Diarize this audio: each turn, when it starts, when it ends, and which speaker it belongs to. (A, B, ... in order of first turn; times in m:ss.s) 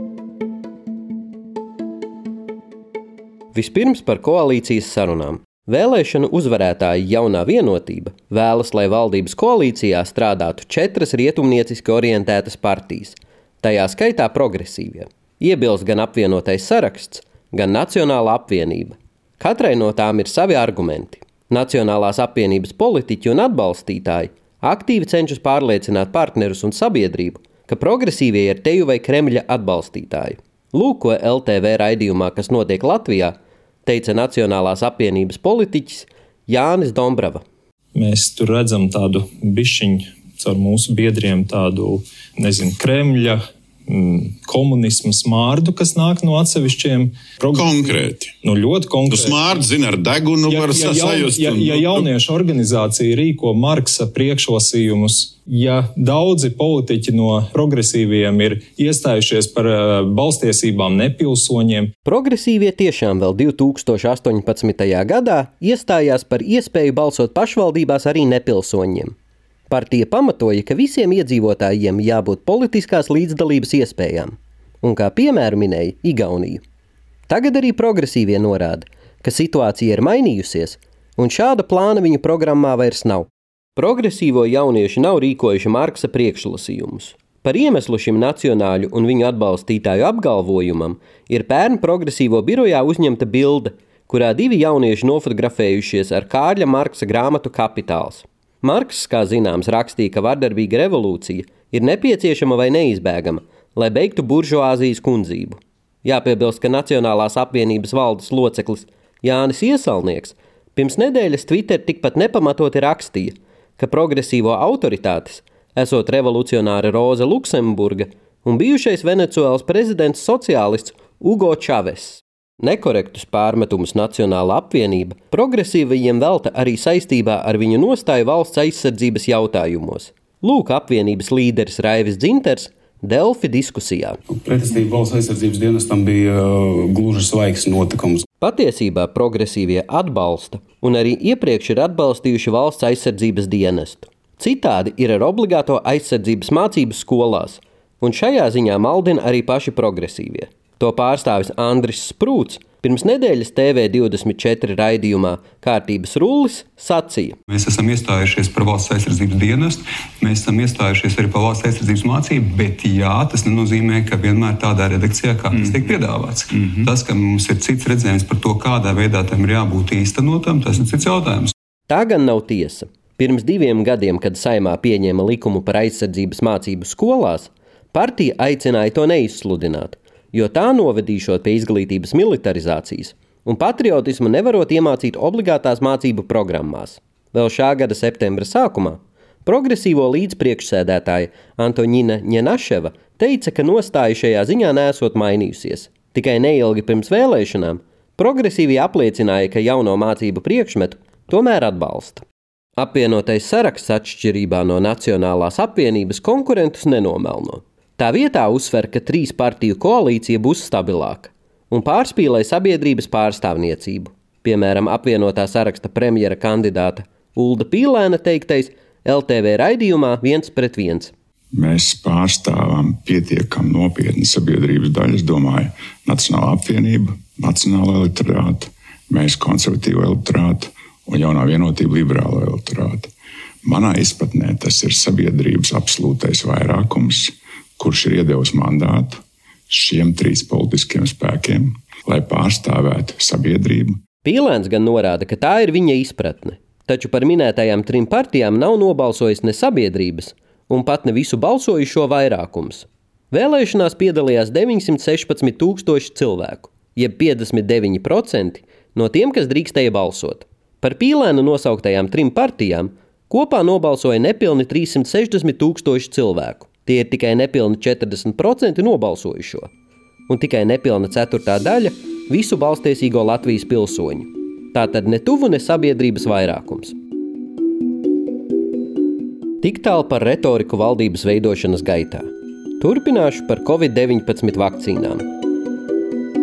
0:03.5-0:37.4 A
0:37.9-0:49.6 B
0:47.5-0:48.3 C
0:49.1-0:52.1 C
0:50.5-1:01.9 B
1:02.0-1:09.1 A
1:09.7-1:16.6 A
1:17.3-2:14.2 A
2:14.3-2:18.2 D
2:18.4-2:37.4 A
2:37.5-2:51.5 E
2:51.9-3:22.2 A
3:22.8-3:41.1 A
3:41.5-3:53.1 F
3:53.6-4:04.0 F
4:04.2-4:29.7 A
4:30.3-4:37.0 A
4:39.6-4:45.2 A